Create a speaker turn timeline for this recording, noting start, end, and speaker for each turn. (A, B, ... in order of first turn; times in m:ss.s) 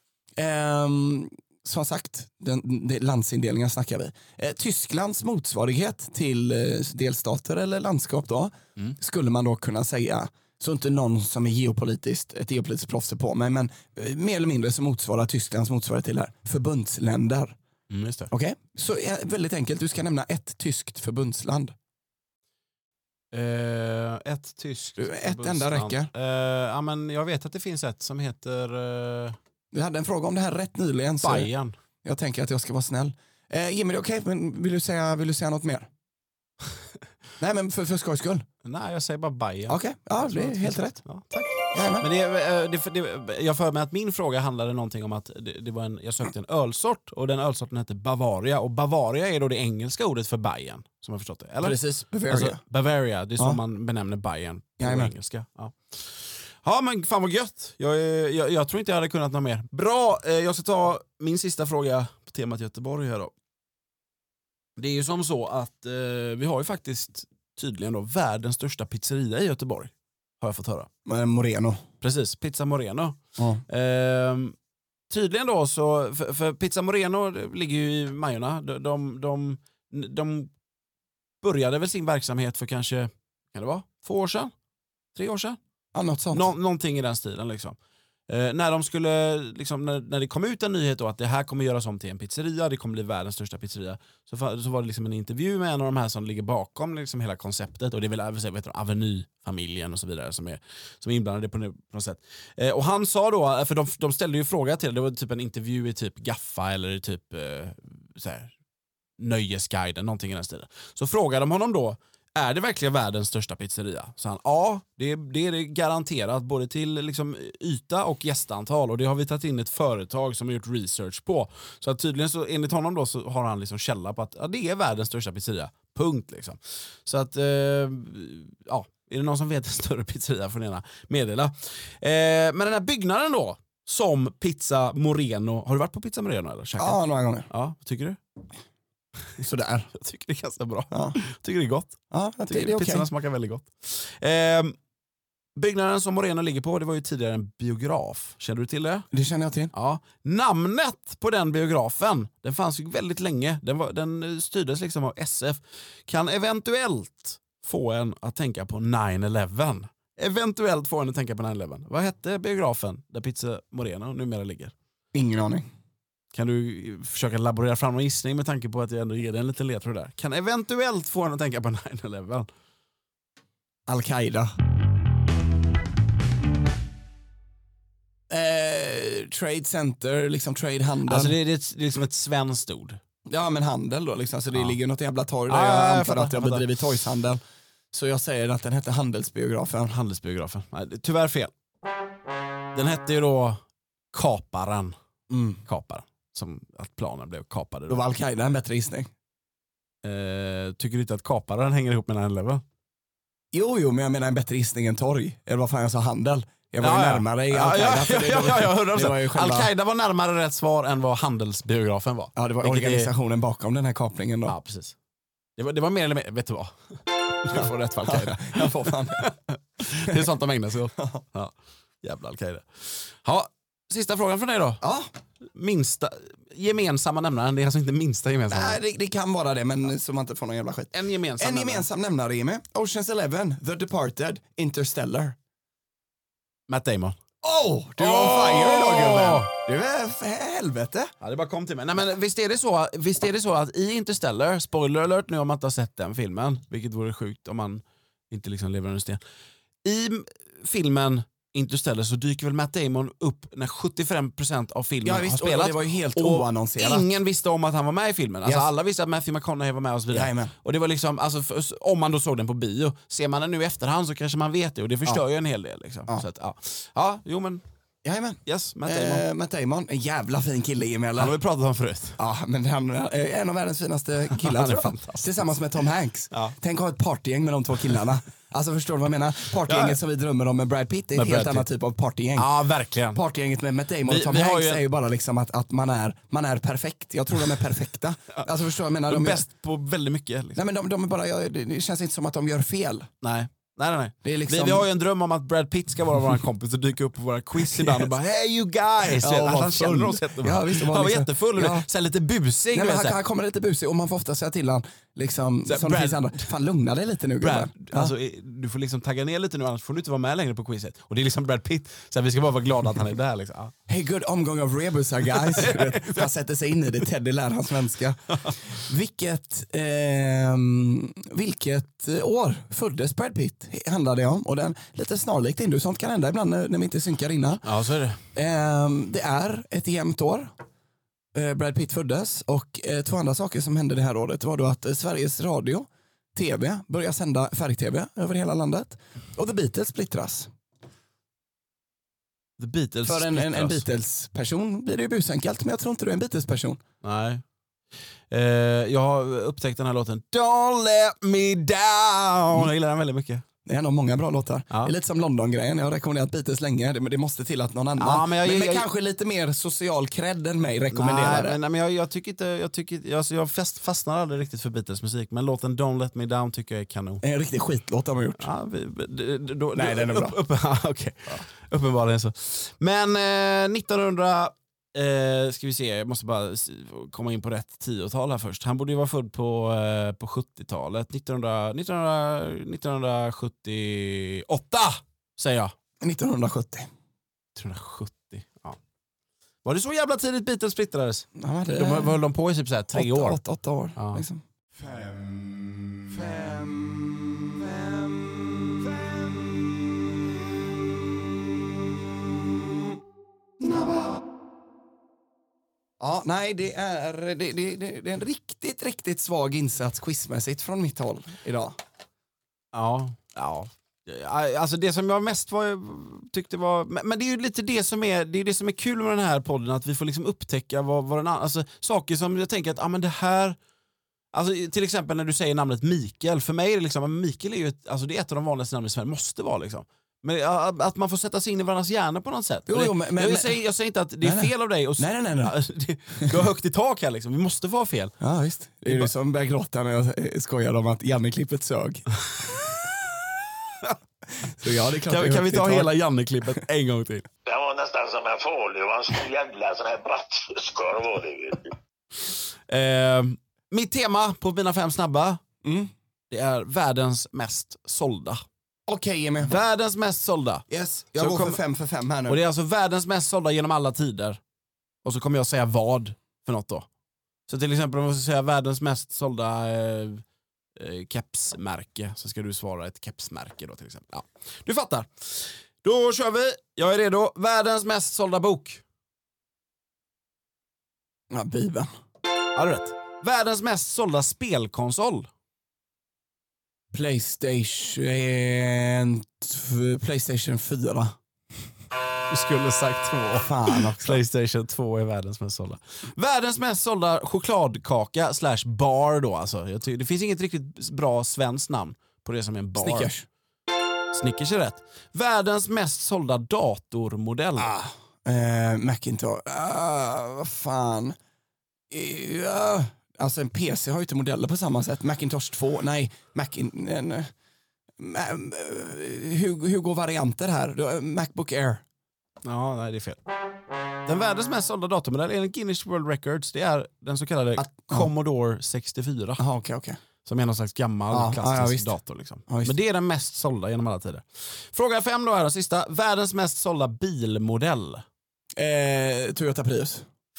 0:00.4-0:17.6 A
0:17.9-0:18.3 B
0:18.3-0:21.8 A
0:23.3-0:29.4 B
0:25.0-0:26.1 A
0:29.7-0:31.5 A
0:31.2-0:31.8 B
0:32.0-0:35.9 A
0:37.4-0:38.4 A
0:38.6-1:03.3 B
0:39.7-0:41.0 A
0:41.7-0:42.1 A
0:51.6-0:52.6 A
0:54.8-0:55.1 A
1:04.8-1:10.9 B
1:11.1-1:11.8 A
1:12.0-1:14.6 B
1:13.4-1:13.6 A
1:15.1-1:20.5 B
1:21.4-1:24.5 B
1:25.2-1:25.6 B
1:25.9-1:26.5 A
1:26.3-1:27.8 B
1:28.3-1:48.5 B
1:49.2-2:18.2 B
2:16.8-2:17.5 A
2:19.4-2:19.9 A
2:19.9-2:22.0 B
2:20.9-2:21.2 A
2:22.1-2:23.1 A
2:22.5-2:24.8 B
2:25.6-2:29.1 B
2:29.1-2:29.7 A
2:29.7-2:44.7 B
2:45.1-2:45.7 A
2:46.3-2:52.5 B
2:53.9-2:54.5 A
2:58.3-3:01.4 A
3:01.0-3:03.0 B
3:03.3-3:07.4 A
3:05.5-3:06.7 B
3:07.9-3:09.9 A
3:09.9-3:11.5 B
3:12.7-3:13.6 B
3:14.1-3:15.0 B
3:15.3-3:15.6 A
3:15.6-3:18.0 B
3:17.9-3:19.1 A
3:20.0-3:22.6 B
3:23.5-3:29.7 A
3:26.8-3:33.1 B
3:32.4-3:34.6 A
3:34.5-3:35.0 B
3:35.6-3:36.7 B
3:37.4-3:44.8 B
3:37.5-3:39.3 A
3:41.0-3:41.2 A
3:44.8-3:45.1 A
3:45.5-3:48.8 B
3:48.5-3:55.4 A
3:50.9-3:51.9 B
3:56.7-3:57.2 B
3:57.4-4:01.1 A
3:58.0-3:59.5 B
4:01.2-4:09.2 B
4:09.8-4:27.6 B
4:15.0-4:17.1 A
4:20.1-4:20.5 A
4:28.0-4:31.4 A
4:28.5-4:29.2 B
4:31.2-4:32.2 B
4:32.2-4:42.5 A
4:34.3-4:35.2 B
4:36.3-4:36.6 B
4:39.7-4:40.0 B
4:41.1-4:41.7 B
4:42.4-4:43.2 B
4:43.1-4:49.5 A
4:44.1-4:44.8 B
4:49.1-4:50.6 B
4:50.6-4:53.1 A
4:53.2-5:03.2 B
4:54.2-4:54.9 A
4:57.6-4:58.1 A
4:59.1-5:01.9 A
5:02.7-5:08.1 A
5:05.7-5:06.5 B
5:07.4-5:13.7 B
5:13.9-5:27.6 A
5:15.3-5:16.3 B
5:18.3-5:18.6 B
5:27.6-5:28.2 B
5:28.3-5:30.5 A
5:31.3-5:40.5 A
5:42.6-5:43.9 B
5:43.1-5:46.8 A
5:47.0-5:47.4 B
5:48.3-5:53.4 B
5:53.7-6:01.6 A
5:58.0-5:58.9 B
6:00.9-6:07.2 B
6:07.2-6:08.5 A
6:08.4-6:25.7 B
6:09.8-6:10.4 A
6:26.0-6:26.9 A
6:27.6-6:28.8 B
6:29.6-6:33.4 B
6:31.4-6:32.2 A
6:32.9-6:40.1 A
6:34.0-6:34.2 B
6:40.7-6:41.2 A
6:42.3-6:42.8 A
6:43.6-6:44.2 A
6:46.0-6:51.8 A
6:52.7-7:03.6 B
7:04.3-7:18.2 B
7:12.7-7:13.6 A
7:14.2-7:15.5 A
7:18.2-7:22.1 A
7:24.4-7:25.9 A
7:25.1-7:27.3 B
7:27.5-7:31.7 C
7:32.7-7:35.4 B
7:35.6-7:35.9 A
7:36.3-7:38.4 B
7:38.9-7:39.6 A
7:39.4-7:40.7 B
7:40.7-7:42.4 A
7:41.2-7:41.6 B
7:42.3-7:44.4 B
7:45.0-7:46.9 B
7:47.5-7:50.2 B
7:50.8-7:58.8 B
8:01.3-8:01.9 A
8:02.6-8:05.3 B
8:06.9-8:11.1 A
8:12.3-8:23.1 B
8:13.4-8:14.2 A
8:22.8-8:23.3 A
8:24.1-8:27.7 B
8:27.6-8:31.2 A
8:31.9-8:37.3 A
8:38.0-8:41.8 A
8:42.4-8:43.2 B
8:44.1-8:49.4 B
8:47.6-8:48.1 A
8:49.4-8:50.0 A
8:50.2-8:58.0 B
8:51.1-8:52.0 A
8:52.5-8:52.7 A
8:58.6-9:00.1 A